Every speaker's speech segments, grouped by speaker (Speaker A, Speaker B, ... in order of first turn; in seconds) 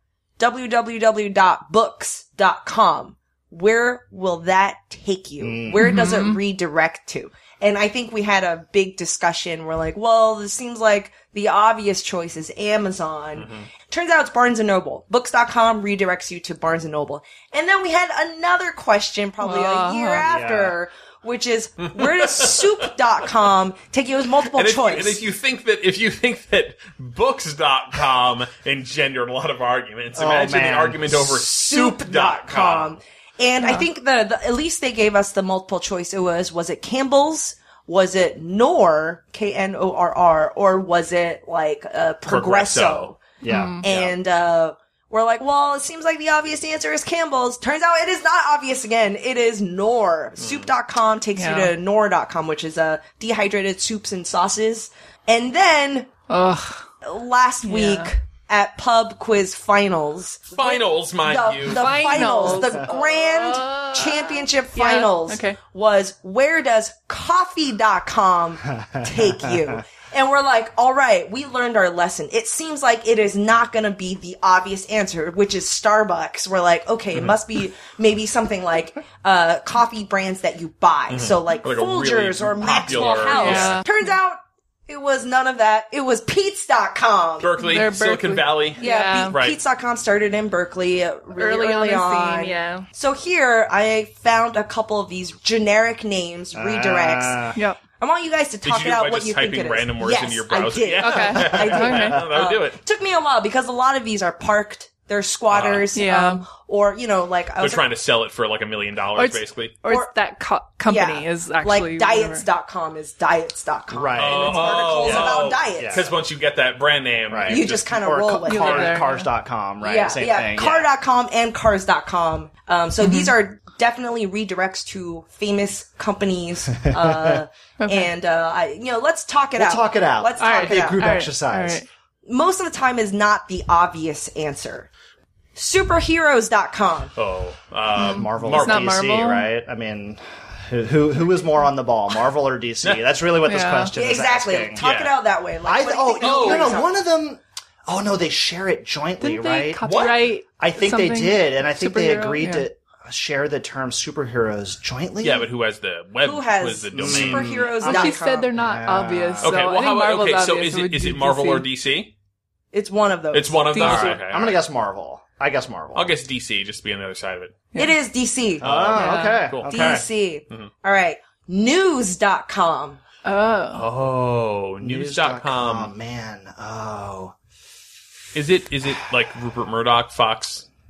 Speaker A: 0.4-25.2, 31.4-43.3, 43.8-56.1, 57.0-87.5, 88.8-97.5, 98.0-107.9, 109.9-110.2, 110.8-116.0, 117.5-119.0, 119.8-131.0, 132.2-134.9, 135.6-137.1, 144.0-146.9, 156.2-158.5, 162.7-164.2, 167.8-168.7, 169.7-173.0
Speaker B: 5.4-5.9, 20.2-20.8, 30.1-31.4, 43.4-44.1, 68.9-69.7, 96.5-97.6, 113.9-116.1, 117.3-120.9, 126.9-127.4, 129.6-131.8, 137.9-144.8, 145.6-150.1, 150.6-155.5, 156.9-159.6, 164.0-166.2, 168.6-170.1, 174.8-177.3
Speaker C: 5.8-6.4, 19.4-20.3, 43.5-43.8, 51.4-51.7, 56.3-56.9, 57.6-58.1, 61.7-65.6, 82.9-83.9, 87.6-89.4, 91.4-92.9, 97.5-97.8, 101.0-102.2, 105.9-106.4, 109.2-112.5, 118.5-119.3, 123.0-123.3, 127.8-128.1, 130.4-131.9, 138.0-139.5, 143.5-143.9, 149.2-152.7, 157.8-161.7, 163.7-164.2, 168.9-169.4, 173.2-173.9
Speaker D: 13.4-13.7, 21.9-22.9, 24.5-33.0, 42.3-43.1, 50.4-50.7, 60.5-62.2, 81.1-83.8, 87.4-89.6, 98.6-102.8, 105.5-105.9, 107.6-109.7, 114.2-117.9, 137.2-138.9, 144.8-145.2, 146.2-146.8, 149.8-150.2, 155.2-157.6, 159.4-162.1, 163.3-164.6, 165.9-167.6, 168.6-170.7, 173.7-175.9, 178.3-180.7